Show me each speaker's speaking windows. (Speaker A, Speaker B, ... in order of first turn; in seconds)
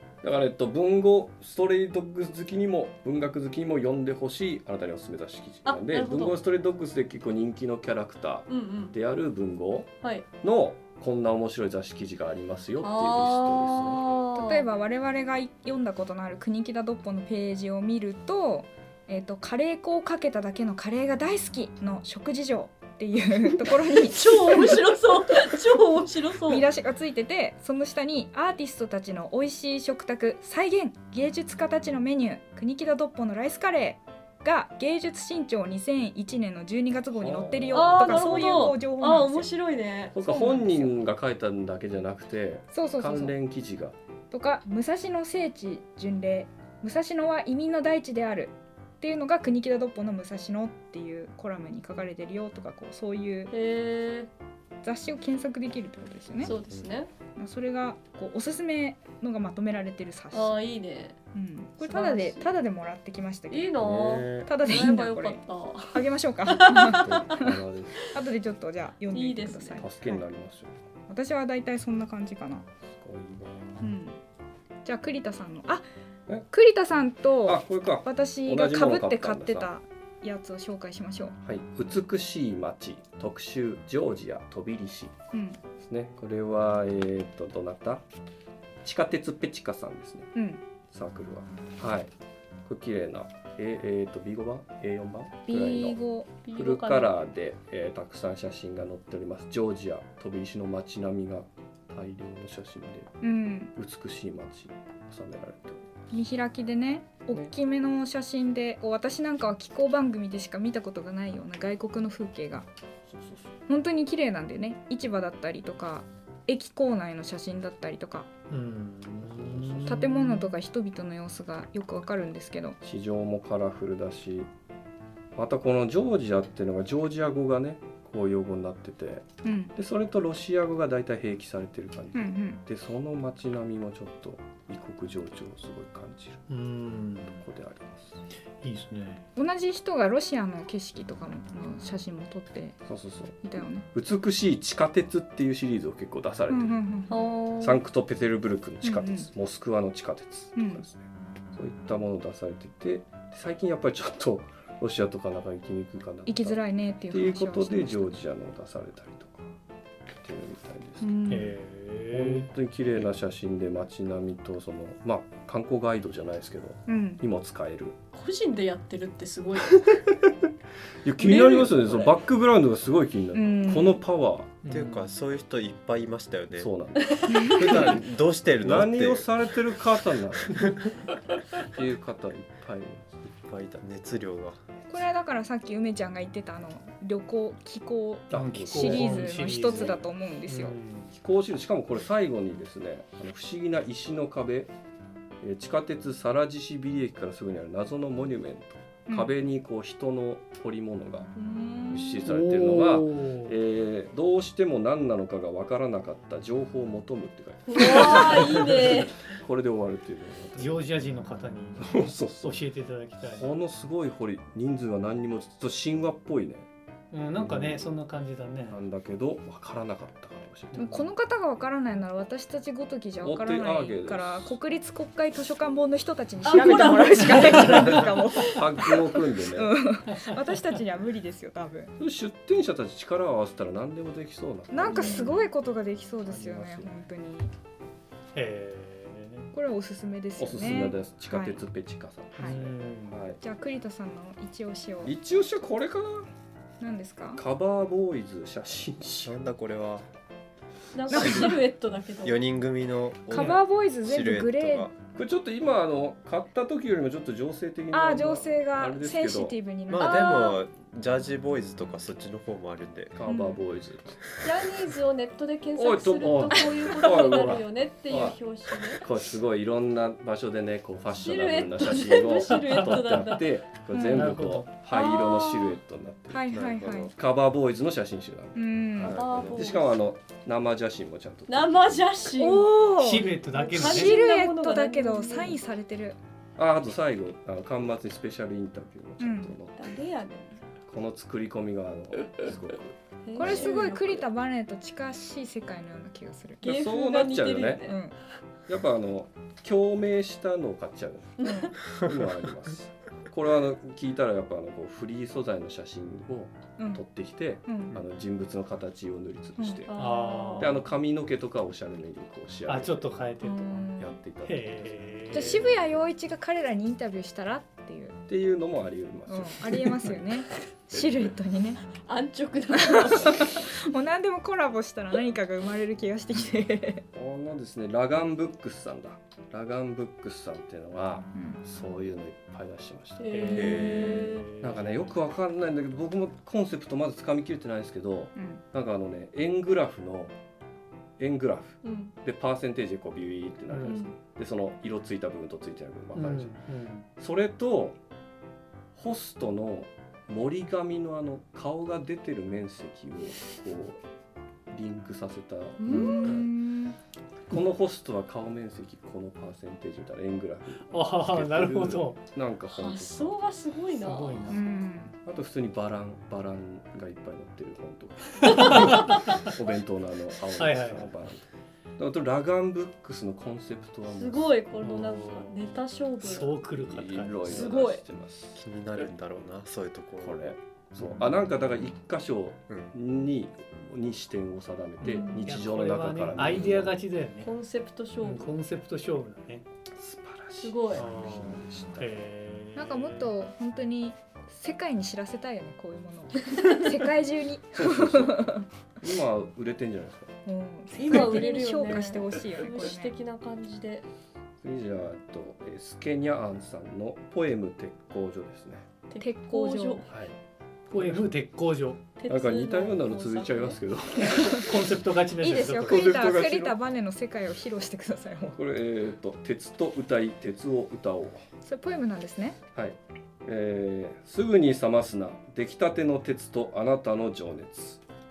Speaker A: 0.2-14.1, 37.1-38.7, 40.1-44.0, 66.9-68.1, 69.8-70.7, 73.0-73.9, 77.5-79.7, 81.4-85.1, 85.8-88.0, 88.8-90.3, 90.9-92.1, 92.7-96.0, 96.5-103.2, 103.8-105.8, 113.1-113.5, 119.3-120.0, 122.8-124.5, 125.4-136.4, 137.4-138.2, 142.9-146.8, 147.6-159.5, 160.2-161.1, 162.1-168.0, 171.0-174.6, 176.6-178.0, 178.6-180.9, 181.6-183.1, 188.3-190.0, 191.1-194.7, 195.4-201.3, 201.9-210.8, 211.8-212.6, 213.2-216.7, 217.4-217.9, 218.7-221.0, 223.2-224.6, 227.5-229.8, 232.0-235.3, 236.2-236.9, 240.4-243.4, 245.0-246.3, 247.4-249.4, 255.1-259.6, 263.2-264.4, 265.8-268.4, 268.9-276.5, 277.1-281.7, 286.6-289.8, 290.9-293.7, 296.6-297.9, 298.7-309.9, 310.6-313.2, 314.0-315.7, 318.3-320.4, 327.1-333.8, 334.6-340.3, 341.2-346.6, 347.2-348.0, 348.9-354.0, 354.7-356.5, 357.5-363.4, 365.2-371.4, 372.0-374.6, 376.7-378.6, 380.2-387.0, 390.0-392.1, 397.8-400.3, 404.6-408.9, 410.1-410.4, 410.9-411.2, 412.3-414.8, 415.9-416.8, 418.6-421.4, 422.7-428.0
Speaker B: 5.7-6.4, 8.5-8.9, 12.8-14.7, 23.9-26.7, 37.7-40.2, 53.5-54.3, 56.4-57.1, 60.3-61.2, 61.8-62.5, 63.5-67.2, 69.1-69.8, 96.5-97.2, 147.1-147.8, 168.1-170.0, 171.2-172.1, 177.1-177.9, 201.4-202.3, 207.7-209.2, 226.5-228.0, 250.9-252.4, 260.0-260.5, 264.4-269.0, 271.2-273.5, 274.9-275.7, 279.1-279.9, 281.5-282.8, 283.5-285.6, 289.8-290.7, 293.3-294.3, 296.6-298.0, 301.4-301.7, 309.9-310.9, 322.0-323.7, 333.2-334.5, 341.8-342.1, 343.9-344.1, 355.8-356.4, 362.7-364.6, 368.4-369.3, 374.1-376.6, 377.5-378.0, 385.0-385.5, 387.4-388.6, 390.6-391.1, 400.9-404.1, 409.1-410.1, 412.2-413.8
Speaker C: 14.3-24.8, 26.5-39.5, 40.2-41.0, 42.7-43.4, 44.3-53.5, 54.8-56.5, 57.4-60.6, 61.3-63.7, 64.5-65.4, 65.9-67.6, 68.1-70.2, 71.1-72.7, 73.8-74.2, 74.8-75.8, 76.5-81.3, 85.3-85.6, 90.3-90.6, 95.5-96.3, 103.2-103.7, 106.1-112.7, 113.7-118.3, 119.8-122.8, 129.4-129.7, 132.2-132.6, 139.4-142.8, 143.4-143.9, 146.5-147.3, 148.8-149.3, 150.6-150.8, 156.3-158.2, 161.0-161.6, 166.9-167.2, 173.3-174.0, 177.3-177.9, 184.9-190.8, 220.8-231.9, 234.7-237.5, 239.5-241.6, 243.4-245.1, 246.8-247.4, 251.1-251.6, 253.3-254.9, 257.9-260.6, 263.3-263.6, 273.9-274.4, 276.3-277.1, 278.6-279.2, 282.4-286.2, 289.2-289.6, 293.4-296.6, 297.9-298.1, 301.4-301.7, 306.8-307.0, 307.7-308.0, 309.6-309.8, 313.4-314.2, 315.3-318.2, 319.3-321.8, 322.8-327.0, 331.3-331.6, 338.4-338.6, 355.9-357.0, 364.5-365.1, 392.8-398.7, 400.4-403.1, 409.2-410.0, 415.4-418.6, 421.6-422.6
Speaker D: 56.5-56.9, 63.8-64.5, 174.7-176.7, 177.5-179.3, 183.3-184.6, 249.2-250.1, 251.1-251.6, 252.2-255.0, 259.9-263.2, 276.5-277.1, 279.0-279.8, 333.5-334.4, 378.6-380.6
Speaker E: 118.5-120.6, 136.5-137.5, 138.6-139.2, 161.3-162.5, 174.6-175.1, 188.3-191.1, 202.2-203.6, 210.6-213.5, 217.1-218.8, 220.7-221.0, 227.3-228.1, 230.1-230.5, 238.3-239.5, 242.4-243.2, 253.3-253.6, 272.7-273.2, 274.1-274.8, 283.0-284.2, 310.0-310.8, 312.7-313.8, 314.4-315.7, 333.3-335.2, 343.7-344.0, 346.1-347.1, 360.9-362.2, 364.0-364.6, 368.4-369.5, 370.6-371.1, 374.8-375.6, 376.2-377.6, 385.1-387.5, 388.2-389.6, 391.0-393.3, 410.9-412.0, 414.3-416.1